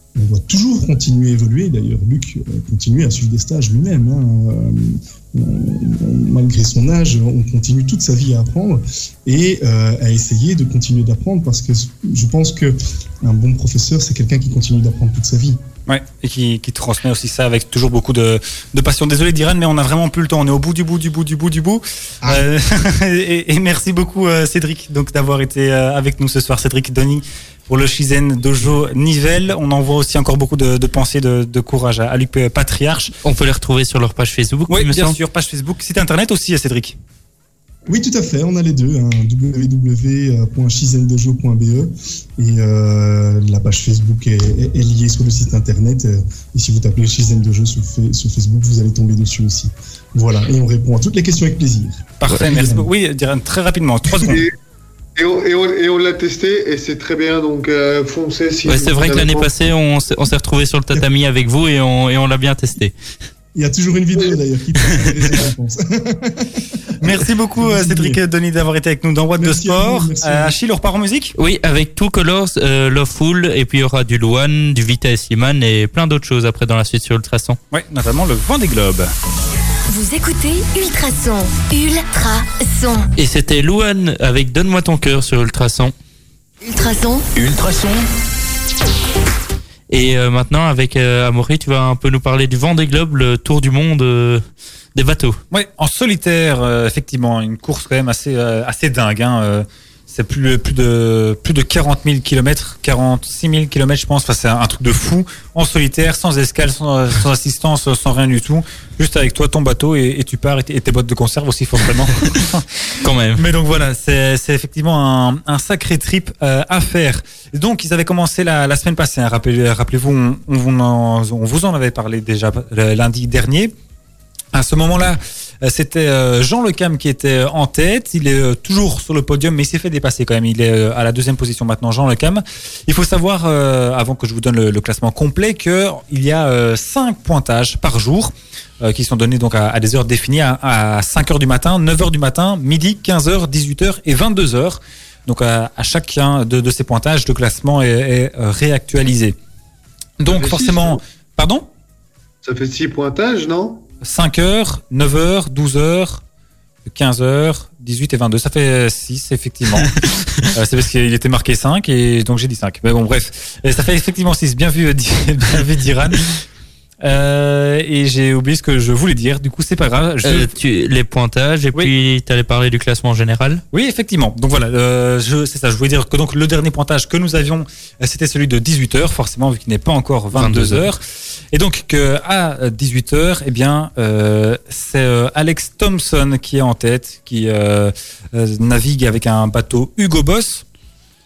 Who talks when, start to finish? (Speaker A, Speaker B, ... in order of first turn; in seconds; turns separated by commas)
Speaker A: 0.1-15.6, Speaker B: 15.9-33.1, Speaker C: 33.2-35.1, Speaker B: 34.7-37.0, Speaker A: 37.9-52.9, Speaker B: 52.2-54.5, Speaker D: 54.2-54.5, Speaker D: 55.1-59.5, Speaker C: 58.6-62.9, Speaker A: 63.5-68.2, Speaker B: 67.0-71.3, Speaker A: 69.4-70.5, Speaker C: 71.4-77.6, Speaker B: 77.7-79.1, Speaker E: 79.9-83.1, Speaker C: 83.2-85.9, Speaker E: 86.6-87.3, Speaker C: 89.9-94.4, Speaker C: 94.9-95.4, Speaker B: 95.5-123.7, Speaker C: 113.0-113.4, Speaker B: 124.5-149.4, Speaker B: 150.2-151.7, Speaker D: 150.3-151.0, Speaker D: 152.4-153.8, Speaker B: 154.0-156.2, Speaker B: 156.8-159.9, Speaker B: 160.5-166.4, Speaker B: 167.0-170.5, Speaker C: 170.2-173.6, Speaker B: 173.7-190.6, Speaker C: 180.3-180.9